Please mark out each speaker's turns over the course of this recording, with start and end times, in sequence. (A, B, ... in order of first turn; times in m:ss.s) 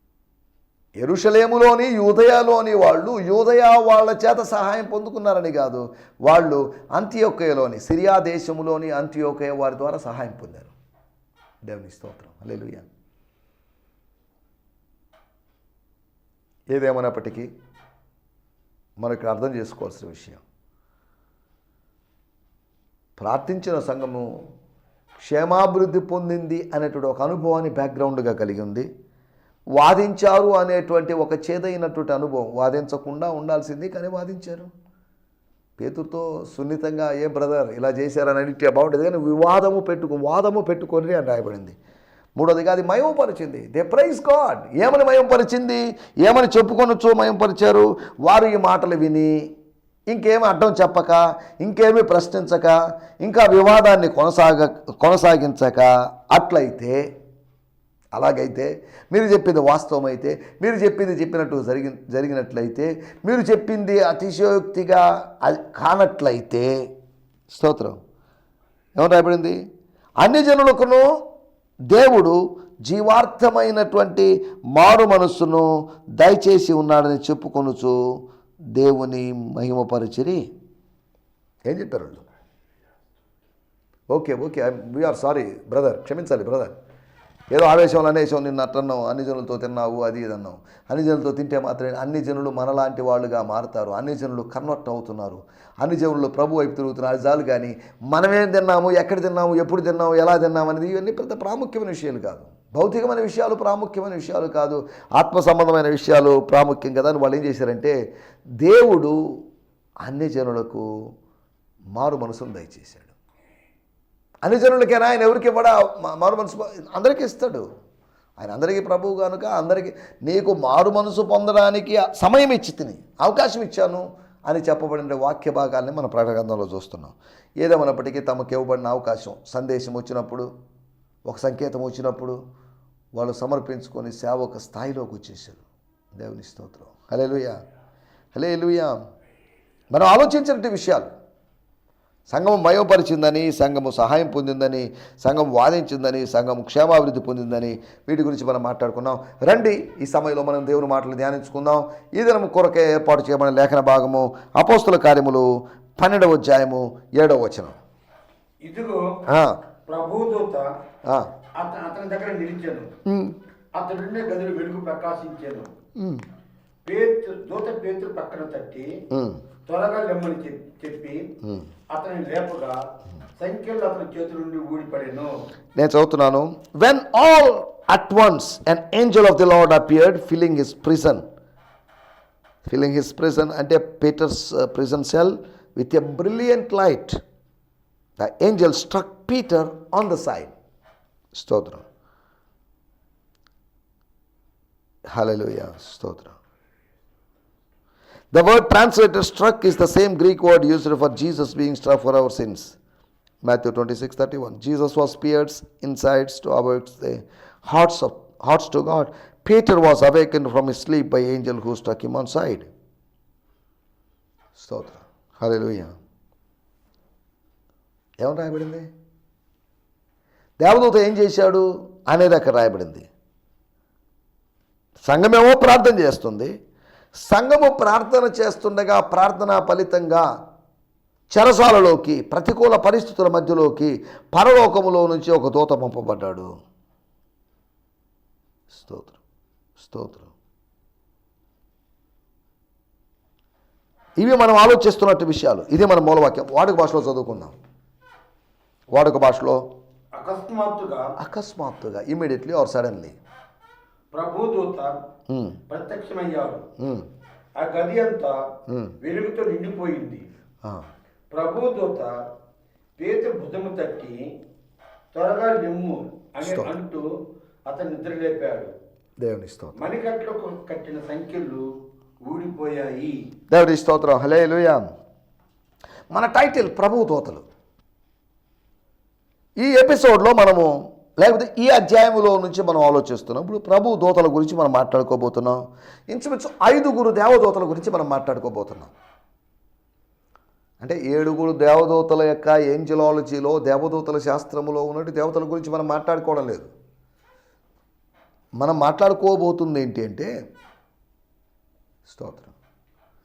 0:01.0-0:10.7 A
0:11.6-0:12.9 A
0:16.7-0:17.5 A
0:19.0-0:20.4 A
0:23.2-0:24.3 A
0:25.2-0:28.9 A
0:29.7-0:34.7 A
0:35.8-0:41.8 A
0:42.4-0:49.5 A
0:50.1-0:57.0 A
0:58.1-1:06.7 A
1:07.5-1:08.0 A
1:09.0-1:09.6 A
1:10.2-1:11.1 A
1:11.9-1:18.0 A
1:18.7-1:20.5 A
1:21.7-1:22.2 A
1:24.1-1:26.8 A
1:27.5-1:47.9 A
1:48.6-1:49.2 A
1:50.0-1:50.8 A
1:51.9-1:53.1 A
1:54.4-1:57.6 A
1:58.4-2:10.5 A
2:11.2-2:12.4 A
2:13.1-2:17.6 A
2:18.3-2:18.9 A
2:19.9-2:21.1 A
2:22.3-2:37.8 A
2:38.6-2:39.0 B
2:39.3-2:39.6 A
2:39.9-2:40.7 B
2:41.6-2:42.9 B
2:43.0-2:43.4 A
2:43.8-2:45.7 B
2:46.0-2:46.2 A
2:46.8-2:48.9 B
2:49.1-2:49.4 A
2:49.6-2:51.3 B
2:51.9-2:52.8 B
2:53.4-2:55.3 B
2:55.8-3:01.2 A
3:02.6-3:07.2 A
3:08.2-3:10.5 A
3:11.3-3:11.8 A
3:15.1-3:16.3 A
3:18.3-3:22.8 A
3:23.4-3:32.7 A
3:34.6-3:35.9 A
3:38.2-3:38.9 A
3:40.6-3:43.1 A
3:45.0-3:46.5 A
3:47.1-3:50.3 A
3:51.3-3:56.5 A
3:58.7-3:59.2 A
3:59.8-4:00.3 A
4:04.2-4:07.6 A
4:08.9-4:09.6 A
4:10.2-4:11.1 B
4:11.2-4:13.2 A
4:14.1-4:14.9 B
4:15.3-4:15.6 A
4:15.7-4:16.6 B
4:16.8-4:17.1 A
4:17.6-4:18.4 B
4:18.7-4:18.9 A
4:19.0-4:20.2 B
4:21.3-4:22.1 B
4:23.0-4:24.2 B
4:25.1-4:27.0 B
4:26.4-4:26.7 A
4:27.7-4:28.7 B
4:29.2-4:29.8 A
4:29.8-4:31.6 B
4:32.2-4:33.1 B
4:33.5-4:34.8 A
4:36.1-4:37.4 A
4:39.6-4:45.6 A
4:46.1-4:48.9 A
4:50.8-4:56.7 A
4:58.6-5:00.3 A
5:02.0-5:02.5 A